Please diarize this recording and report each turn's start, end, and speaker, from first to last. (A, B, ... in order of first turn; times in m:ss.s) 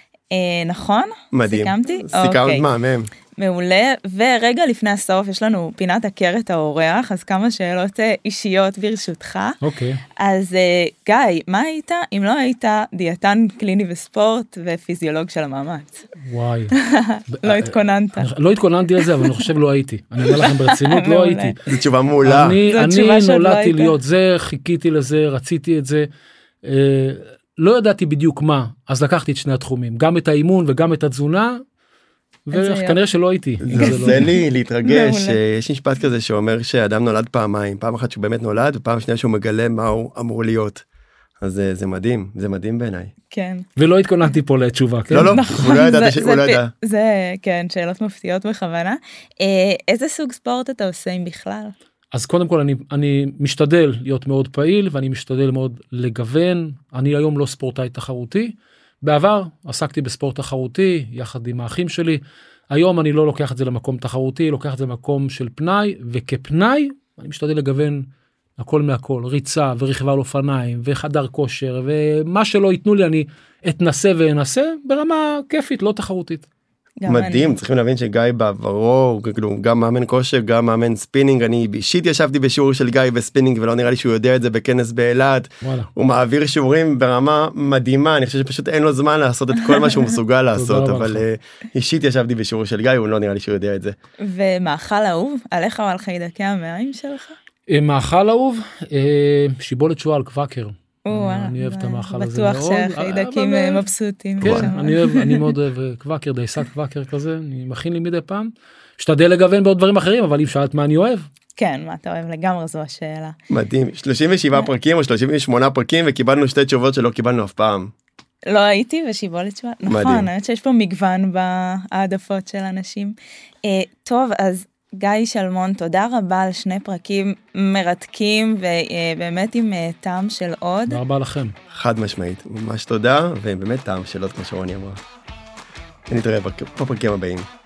0:00.3-0:02.7 A
0:01.3-0:03.1 B
0:03.4-0:09.6 A
0:09.6-0:10.0 C
0:10.2-0:16.1 A
0:16.2-0:16.7 C
0:16.7-0:18.3 A
0:17.3-0:21.6 C
0:19.0-0:19.4 A
0:20.3-0:21.6 A
0:21.7-0:22.6 B
0:22.2-0:26.1 C
0:22.7-0:23.9 A
0:26.6-0:31.6 C
0:32.5-0:34.2 C
0:32.5-0:33.0 A
0:33.6-0:40.8 B
0:33.8-0:35.4 A
0:41.4-0:43.1 B
0:43.3-0:43.7 A
0:43.8-0:45.4 C
0:45.1-0:46.7 B
0:45.3-0:51.7 A
0:52.1-1:16.5 C
1:17.0-1:17.6 A
1:17.1-1:34.0 B
1:25.6-1:25.9 C
1:30.5-1:31.2 C
1:34.2-1:37.4 A
1:37.7-1:43.9 C
1:41.0-1:45.5 A
1:44.4-1:51.3 C
1:44.4-1:44.7 B
1:51.6-1:53.4 A
1:53.5-1:57.9 B
1:58.5-2:11.0 A
1:59.8-2:00.3 B
2:10.9-2:11.6 C
2:11.7-2:15.0 B
2:16.1-2:17.5 B